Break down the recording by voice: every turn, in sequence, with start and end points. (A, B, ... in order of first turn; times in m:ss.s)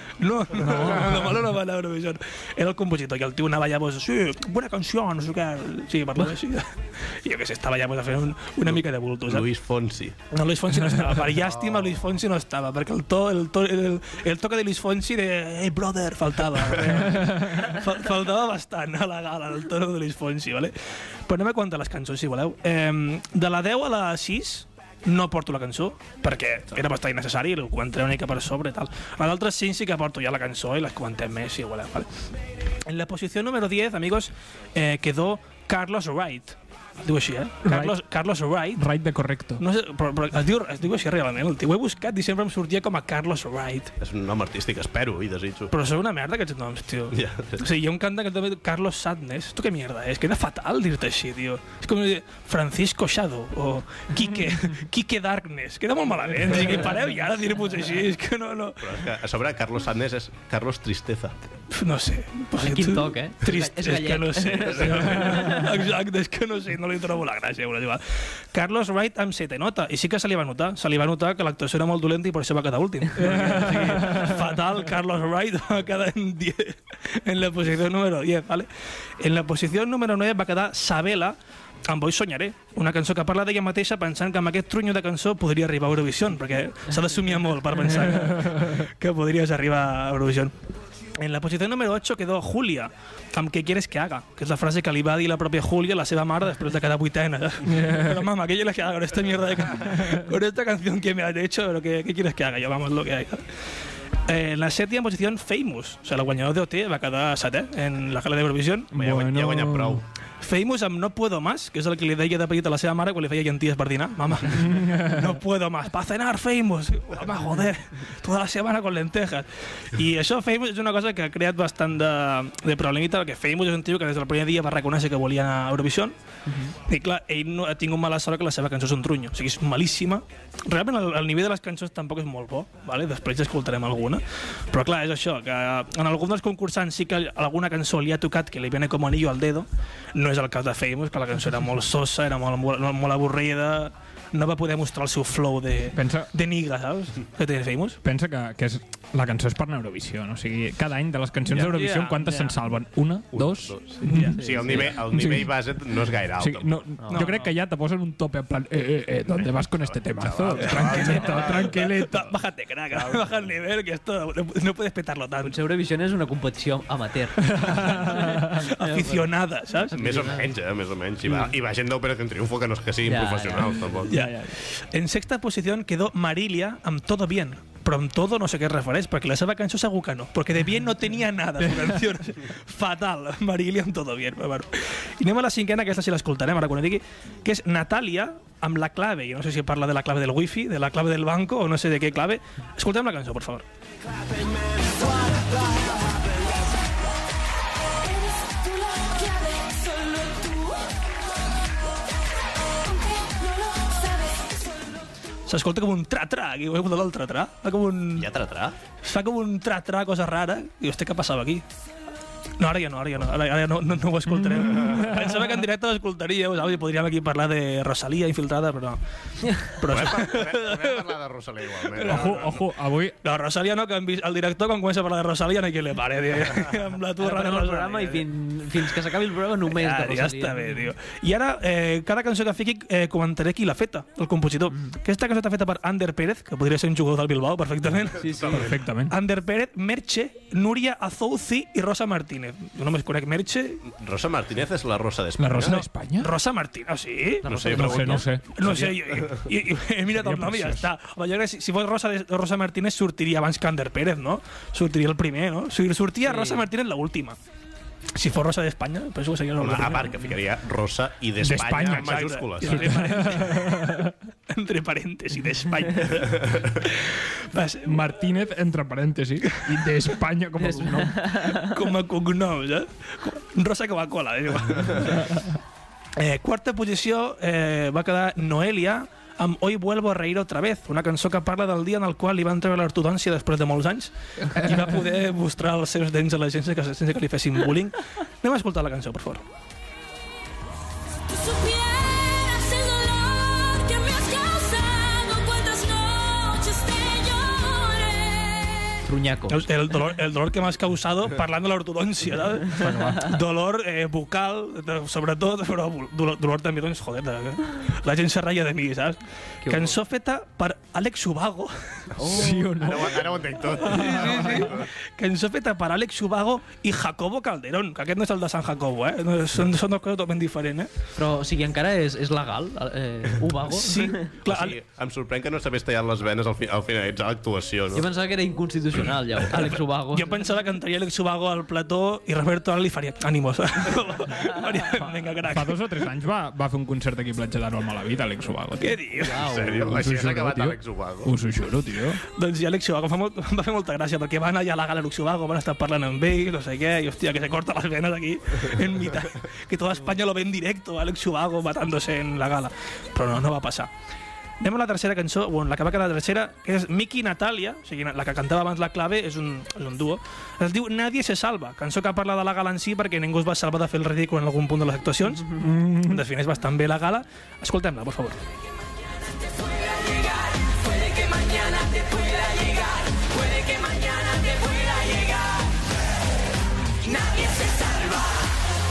0:00.2-0:09.5 A
0:00.6-0:01.3 B
0:08.7-0:10.2 C
0:10.3-0:32.1 A
0:11.7-0:12.0 C
0:32.8-0:38.9 A
0:37.7-0:38.0 B
0:38.8-0:39.6 B
0:39.6-0:43.9 A
0:44.0-0:45.7 C
0:45.7-0:59.0 A
0:47.1-0:47.6 C
0:58.8-1:01.3 C
1:01.7-1:30.5 A
1:02.6-1:05.8 D
1:04.7-1:05.4 C
1:13.2-1:14.4 B
1:28.3-1:28.7 B
1:31.2-1:43.5 A
1:37.7-1:38.2 B
1:44.2-1:48.9 A
1:48.9-1:50.0 B
1:48.9-1:50.0 C
1:50.4-2:06.2 A
1:54.6-1:55.3 B
2:06.5-2:06.7 D
2:06.8-2:28.0 A
2:26.0-2:26.3 B
2:28.0-2:35.6 B
2:31.6-2:32.3 A
2:32.2-2:32.5 D
2:33.3-2:36.8 C
2:34.0-2:34.7 A
2:34.4-2:34.9 D
2:36.4-2:42.3 B
2:37.0-2:37.3 D
2:37.1-2:37.5 A
2:39.3-2:41.8 C
2:40.7-2:45.6 A
2:45.4-2:49.3 D
2:47.5-2:48.6 B
2:48.0-2:50.0 A
2:49.9-2:50.5 D
2:49.9-2:54.2 C
2:51.3-2:51.5 D
2:53.0-2:54.1 D
2:54.1-3:13.7 A
2:54.1-2:54.5 B
3:18.1-3:20.9 E
3:22.9-3:24.6 E
3:25.5-3:28.3 A
3:28.2-3:28.8 C
3:29.0-3:31.7 A
3:32.6-3:39.0 A
3:34.3-3:35.3 B
3:39.4-3:39.7 D
3:39.6-3:41.2 A
3:39.9-3:42.5 C
3:41.8-3:42.7 A
3:42.0-3:43.2 B
3:43.2-3:48.3 A
3:47.2-3:50.9 D
3:49.6-4:03.8 A
3:58.2-3:58.8 C
3:58.2-3:58.6 D
3:58.5-3:59.1 B
4:03.9-4:05.8 C
4:05.4-4:06.3 B
4:05.6-4:17.4 A
4:07.4-4:08.9 C
4:07.5-4:08.0 D
4:07.6-4:08.9 B
4:10.1-4:10.9 B
4:16.2-4:16.6 D
4:18.1-4:20.3 A
4:19.6-4:23.3 C
4:21.4-4:24.1 B
4:21.9-4:28.2 A
4:27.8-4:31.4 B
4:29.5-4:30.0 A
4:30.6-4:31.8 D
4:31.5-4:35.5 A
4:36.2-4:49.4 A
4:51.3-4:59.0 E
4:59.0-4:59.6 D
4:59.5-5:12.1 A
5:02.7-5:03.3 B
5:09.6-5:10.0 D
5:12.2-5:12.9 D
5:12.2-5:14.8 B
5:12.8-5:14.9 C
5:13.7-5:20.9 A
5:21.2-5:24.3 D
5:23.7-5:24.8 A
5:24.4-5:28.1 C
5:27.9-5:30.4 D
5:30.1-5:35.8 A
5:35.5-5:39.0 B
5:38.8-5:39.4 A
5:39.2-5:39.9 D
5:39.4-5:41.4 C
5:39.8-5:42.2 B
5:42.3-5:53.9 A
5:54.6-6:08.4 A
6:05.5-6:06.2 B
6:10.9-6:15.1 E